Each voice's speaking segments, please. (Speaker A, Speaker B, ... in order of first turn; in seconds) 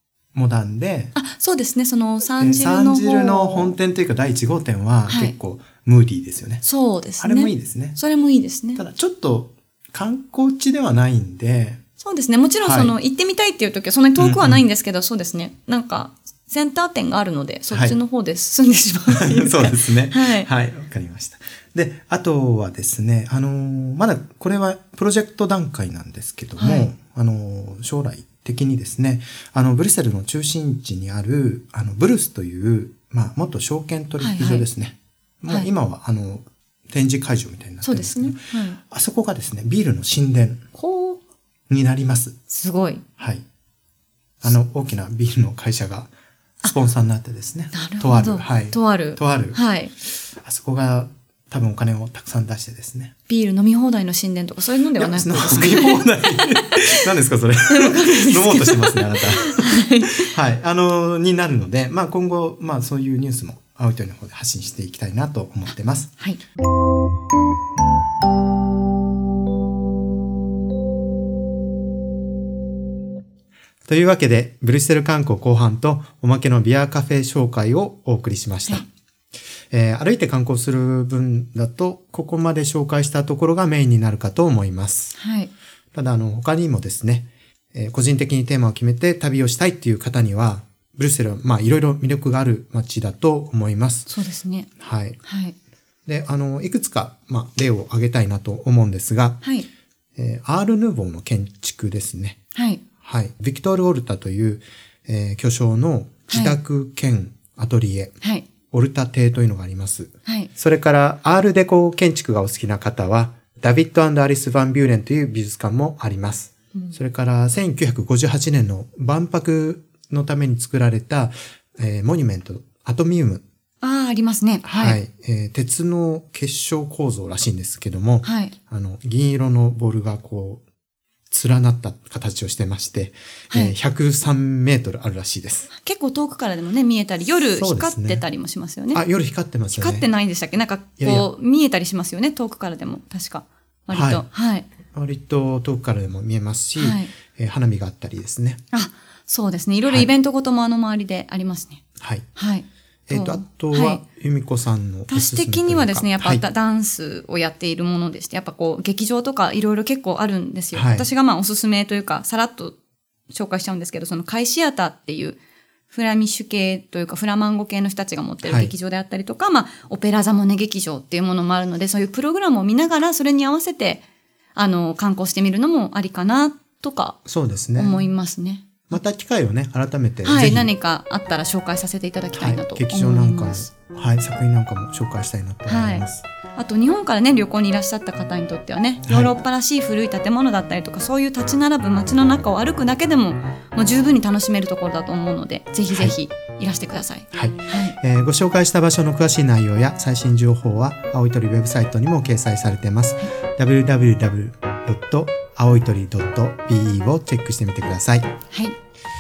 Speaker A: 0.3-1.1, 2.4-6.6, 7.2-8.0, 8.8-11.8, 12.6-12.9, 14.2-14.6, 17.7-18.0, 19.1-40.6, 41.7-42.4, 43.2-43.5, 44.4-46.1, 46.6-53.1, 55.0-66.1, 73.9-78.9, 79.7-85.2, 85.9-94.1, 94.8-95.2, 96.1-99.4, 100.2-102.4, 103.0-108.2, 108.7-123.4, 124.6-130.6, 131.3-135.7, 137.5-138.2, 138.9-140.1, 141.0-141.3, 143.9-144.3, 144.9-148.6, 149.8-150.1, 152.0-152.3, 153.1-156.4, 160.7-161.1, 168.4-168.7, 177.3-178.1, 178.9-180.7, 182.3-186.3, 189.1-189.4, 195.9-196.2, 197.3-208.3
Speaker B: 1.1-3.8, 5.1-5.3, 6.6-8.8, 12.0-20.5, 26.6-26.9, 34.2-34.7, 37.8-38.8, 40.8-41.2, 42.5-43.0, 47.7-49.9, 53.3-57.1, 57.7-60.3, 85.2-85.5, 94.1-94.7, 95.2-95.5, 99.4-99.7, 102.5-102.8, 106.3-106.6, 108.2-108.5, 110.2-110.5, 123.8-125.0, 128.2-128.5, 133.5-133.8, 135.7-139.0, 139.7-144.7, 146.8-147.1, 148.7-151.8, 152.3-154.0, 155.1-162.8, 163.3-165.4, 165.9-174.0, 174.6-177.2, 177.8-178.9, 180.2-183.7, 185.7-198.0, 208.5-208.8